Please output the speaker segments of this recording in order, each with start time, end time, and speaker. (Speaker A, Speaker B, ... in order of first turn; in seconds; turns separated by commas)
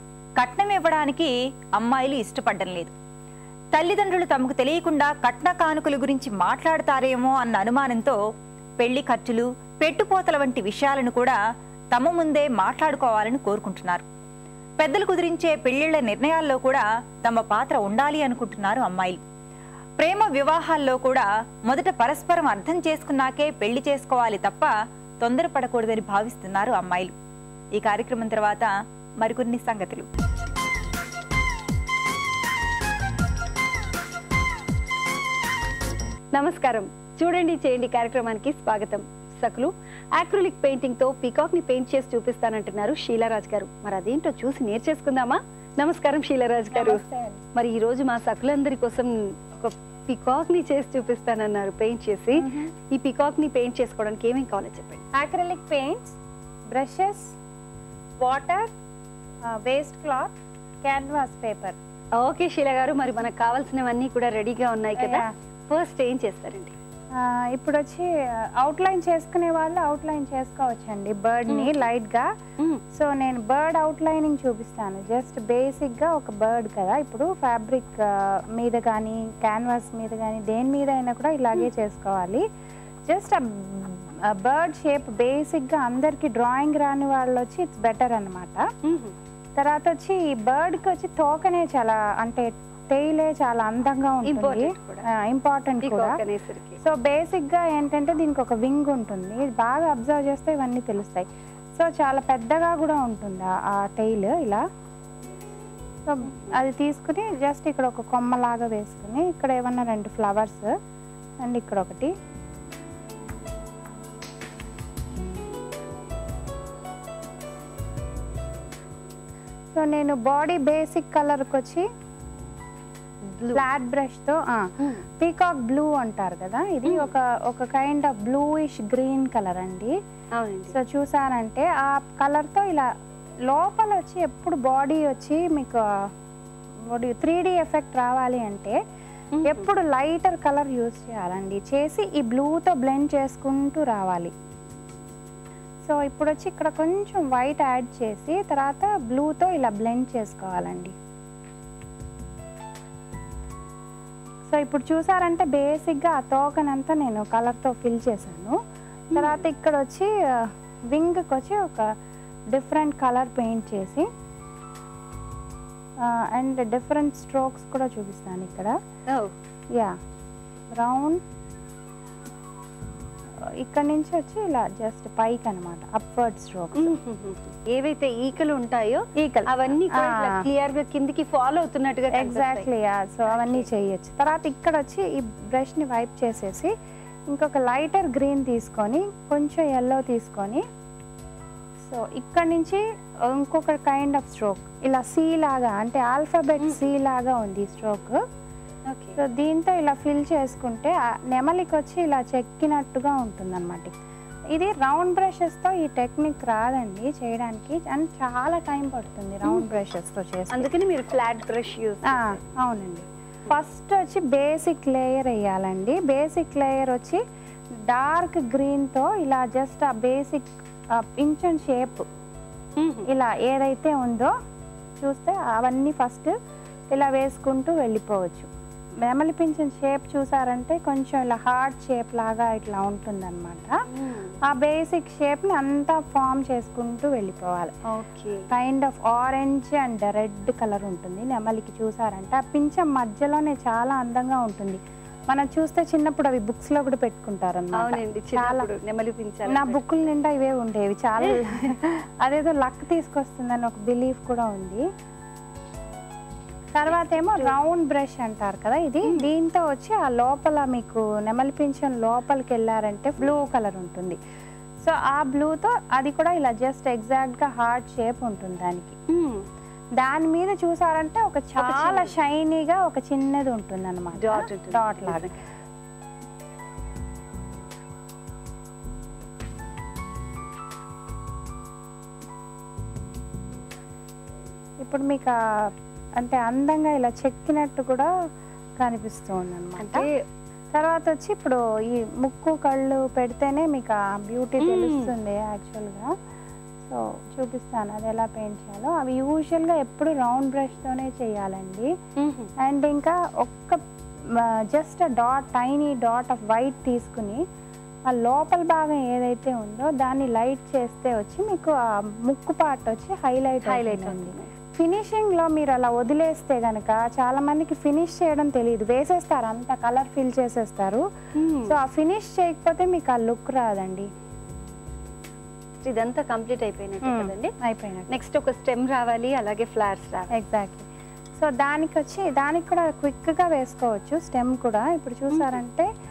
Speaker A: 0.4-2.9, Speaker A: 3.7-8.2, Speaker A: 8.8-11.4, Speaker A: 11.9-14.0, Speaker A: 14.8-19.2, Speaker A: 20.0-27.1, Speaker A: 27.7-30.1, Speaker B: 36.3-47.0, Speaker C: 46.7-47.4, Speaker B: 47.5-55.0, Speaker C: 52.4-52.6, Speaker C: 55.1-56.2, Speaker C: 56.7-57.4, Speaker C: 58.2-58.7, Speaker C: 59.5-60.3, Speaker C: 60.8-61.8, Speaker B: 62.2-66.7, Speaker C: 65.0-65.3, Speaker C: 67.2-68.1, Speaker C: 68.6-72.3, Speaker B: 71.5-71.8, Speaker C: 72.9-78.0, Speaker C: 78.6-82.4, Speaker C: 83.1-88.6, Speaker B: 88.8-89.1, Speaker C: 89.5-96.2, Speaker B: 94.2-95.0, Speaker B: 95.8-96.8, Speaker C: 96.8-104.6, Speaker C: 106.0-110.7, Speaker B: 106.3-106.6, Speaker C: 111.4-112.1, Speaker C: 119.7-121.8, Speaker B: 123.3-123.6, Speaker C: 123.5-124.7, Speaker C: 125.2-129.9, Speaker B: 126.8-127.1, Speaker B: 130.3-130.7, Speaker C: 130.7-132.8, Speaker C: 133.5-135.8, Speaker C: 136.9-138.8, Speaker B: 139.3-139.7, Speaker C: 139.4-144.3, Speaker C: 145.8-150.9, Speaker C: 154.5-158.6, Speaker B: 159.1-159.4, Speaker C: 159.1-161.9, Speaker C: 162.5-164.1, Speaker C: 166.1-168.7, Speaker C: 170.7-171.2, Speaker C: 173.6-176.9, Speaker B: 176.7-182.7, Speaker C: 179.2-180.4, Speaker C: 182.1-186.7, Speaker B: 183.3-183.7, Speaker C: 187.3-190.6, Speaker C: 191.8-198.2, Speaker B: 196.6-196.9, Speaker B: 198.9-199.2, Speaker C: 199.2-203.9, Speaker C: 204.5-210.7, Speaker B: 210.5-212.4, Speaker C: 212.0-217.2, Speaker C: 217.9-220.5, Speaker C: 221.0-222.1, Speaker B: 222.8-223.1, Speaker C: 223.1-224.3, Speaker C: 225.0-226.3, Speaker C: 226.9-228.5, Speaker C: 229.1-233.8, Speaker B: 233.9-234.3, Speaker C: 234.5-237.7, Speaker B: 237.9-238.4, Speaker C: 238.5-248.7, Speaker B: 247.7-249.8, Speaker C: 249.4-254.8, Speaker C: 256.7-264.2, Speaker B: 256.9-257.5, Speaker C: 264.8-268.9, Speaker B: 269.1-269.4, Speaker C: 270.0-275.3, Speaker B: 271.6-272.1, Speaker B: 274.2-275.4, Speaker C: 284.8-285.3, Speaker C: 286.2-288.1, Speaker C: 288.8-290.1, Speaker B: 289.8-290.1, Speaker C: 290.7-296.1, Speaker B: 294.6-295.1, Speaker C: 296.9-301.9, Speaker B: 302.2-302.5, Speaker C: 302.6-303.8, Speaker C: 304.3-307.4, Speaker C: 308.1-311.7, Speaker C: 312.2-321.0, Speaker B: 313.6-314.5, Speaker B: 321.4-321.8, Speaker C: 321.6-324.1, Speaker B: 325.8-327.5, Speaker C: 327.0-328.1, Speaker B: 328.1-330.3, Speaker C: 330.3-330.8, Speaker C: 331.4-335.9, Speaker B: 335.3-335.6